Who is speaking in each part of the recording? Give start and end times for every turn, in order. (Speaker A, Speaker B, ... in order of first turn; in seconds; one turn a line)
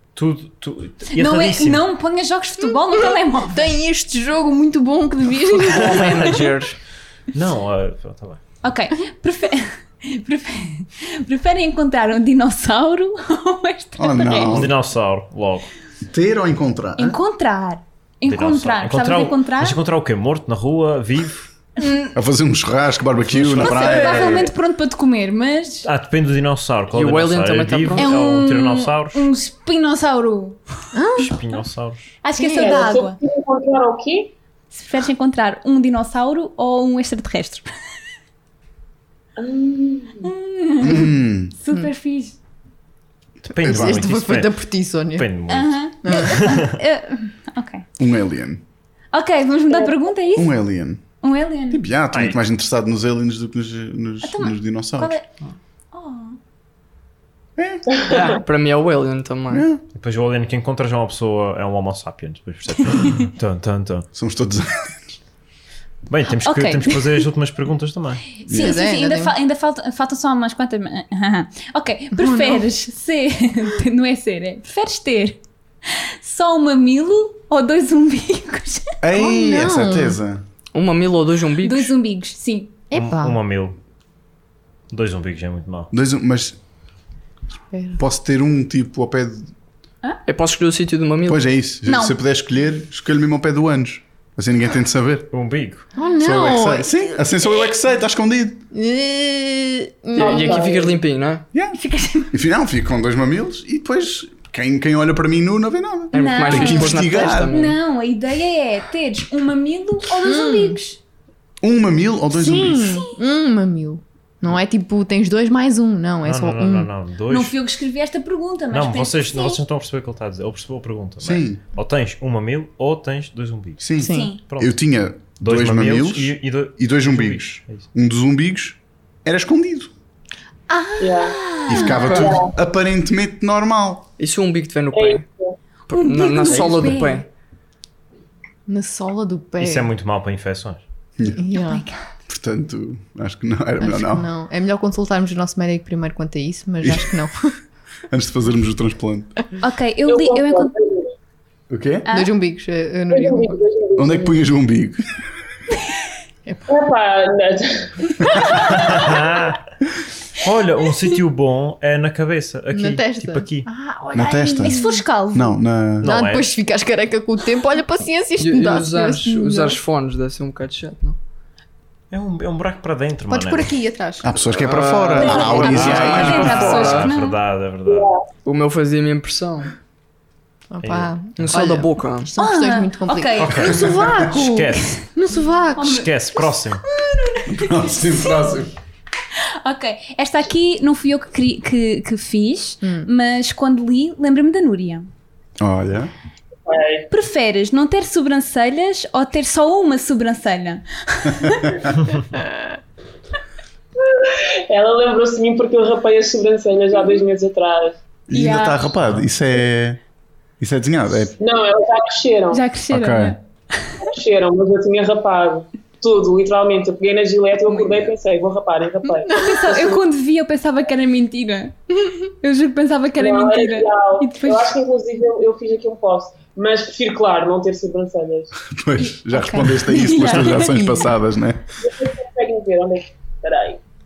Speaker A: 0.1-1.8
Speaker B: 1.1-3.6
Speaker C: 3.5-6.3
Speaker D: 5.7-6.8
Speaker A: 5.8-6.5
Speaker A: 7.3-8.4
Speaker B: 8.6-14.7
Speaker E: 14.0-14.7
Speaker A: 14.4-15.7
Speaker E: 16.1-17.2
Speaker B: 17.0-19.8
Speaker A: 18.2-21.5
Speaker B: 21.8-22.1
Speaker E: 22.1-24.5
Speaker A: 23.2-24.4
Speaker B: 23.6-25.9
Speaker A: 25.8-29.2
Speaker D: 26.9-28.2
Speaker B: 27.9-30.6
Speaker C: 30.9-31.3
Speaker A: 31.2-32.1
Speaker B: 32.2-33.2
Speaker C: 32.4-32.9
Speaker F: 32.5-34.3
Speaker B: 34.7-37.7
Speaker F: 39.4-40.3
Speaker B: 40.2-42.4
Speaker E: 40.8-41.5
Speaker A: 43.4-44.5
Speaker E: 43.6-44.0
Speaker C: 43.6-45.3
Speaker A: 45.1-46.8
Speaker B: 45.5-47.8
Speaker C: 46.0-46.6
Speaker E: 48.0-48.6
Speaker B: 49.1-50.5
Speaker E: 50.3-51.0
Speaker B: 51.2-51.8
Speaker E: 51.7-55.1
Speaker A: 52.1-52.4
Speaker B: 54.2-55.3
Speaker B: 55.9-56.4
Speaker E: 57.6-57.9
Speaker F: 57.9-58.4
Speaker D: 58.1-59.6
Speaker E: 59.5-59.8
Speaker A: 59.9-64.1
Speaker E: 64.1-65.0
Speaker A: 66.1-68.3
Speaker B: 66.3-67.2
Speaker B: 68.4-79.0
Speaker E: 68.5-68.8
Speaker C: 68.5-69.3
Speaker C: 72.1-72.6
Speaker E: 79.0-80.4
Speaker C: 79.1-80.2
Speaker D: 80.7-81.9
Speaker B: 81.6-82.8
Speaker C: 82.9-83.4
Speaker A: 82.9-83.8
Speaker A: 84.9-85.9
Speaker E: 85.9-86.6
Speaker C: 87.7-88.0
Speaker E: 88.0-89.5
Speaker D: 90.3-91.5
Speaker E: 91.3-95.3
Speaker B: 91.8-92.1
Speaker A: 95.3-95.9
Speaker C: 96.0-96.9
Speaker E: 96.2-98.6
Speaker C: 98.7-100.7
Speaker D: 100.1-101.4
Speaker F: 100.2-100.9
Speaker B: 101.7-102.4
Speaker E: 102.3-107.5
Speaker D: 106.1-107.8
Speaker B: 106.1-111.0
Speaker C: 110.2-110.8
Speaker E: 111.6-113.0
Speaker C: 112.3-116.9
Speaker A: 116.2-117.5
Speaker B: 117.3-119.6
Speaker A: 118.7-124.8
Speaker E: 121.2-121.6
Speaker E: 123.8-129.9
Speaker C: 124.0-124.3
Speaker B: 124.0-124.4
Speaker A: 125.4-127.8
Speaker B: 130.7-132.3
Speaker F: 131.0-131.4
Speaker E: 131.7-134.1
Speaker F: 132.0-132.5
Speaker D: 134.2-135.2
Speaker F: 134.9-135.6
Speaker D: 135.9-137.3
Speaker B: 135.9-137.2
Speaker C: 138.7-139.9
Speaker A: 139.6-140.8
Speaker C: 141.3-141.8
Speaker B: 141.5-142.0
Speaker E: 142.3-144.3
Speaker C: 143.8-147.5
Speaker E: 146.8-147.3
Speaker E: 148.1-149.3
Speaker B: 149.6-150.7
Speaker F: 150.1-151.1
Speaker E: 151.7-152.1
Speaker B: 152.1-152.3
Speaker C: 152.1-153.6
Speaker F: 153.1-154.3
Speaker E: 154.0-155.0
Speaker F: 156.7-158.1
Speaker A: 158.7-159.6
Speaker A: 160.3-163.7
Speaker C: 162.7-165.0
Speaker E: 164.1-164.8
Speaker B: 164.4-165.6
Speaker E: 165.3-166.1
Speaker A: 166.0-166.5
Speaker C: 166.0-169.8
Speaker D: 168.4-171.2
Speaker A: 172.1-173.8
Speaker C: 173.3-174.4
Speaker E: 174.2-176.6
Speaker D: 174.4-177.1
Speaker B: 175.2-177.4
Speaker A: 175.5-178.1
Speaker F: 177.9-178.2
Speaker D: 178.4-179.7
Speaker C: 180.7-186.0
Speaker A: 180.8-181.4
Speaker D: 181.4-182.3
Speaker B: 182.4-184.0
Speaker A: 183.4-185.0
Speaker E: 183.9-184.2
Speaker B: 185.8-186.1
Speaker A: 185.8-186.8
Speaker B: 187.3-188.6
Speaker E: 187.5-188.7
Speaker B: 189.3-195.1
Speaker C: 192.8-193.1
Speaker E: 195.6-196.1
Speaker F: 196.7-197.1
Speaker B: 197.1-201.8
Speaker E: 201.4-201.8
Speaker C: 202.3-202.7
Speaker F: 204.0-208.0
Speaker E: 208.3-210.0
Speaker B: 208.3-208.8
Speaker E: 210.6-211.3
Speaker F: 211.4-212.6
Speaker B: 212.5-213.9
Speaker E: 212.9-213.3
Speaker F: 214.0-220.0
Speaker B: 219.3-224.7
Speaker F: 223.2-228.5
Speaker E: 228.7-231.6
Speaker B: 229.0-231.1
Speaker F: 231.8-233.8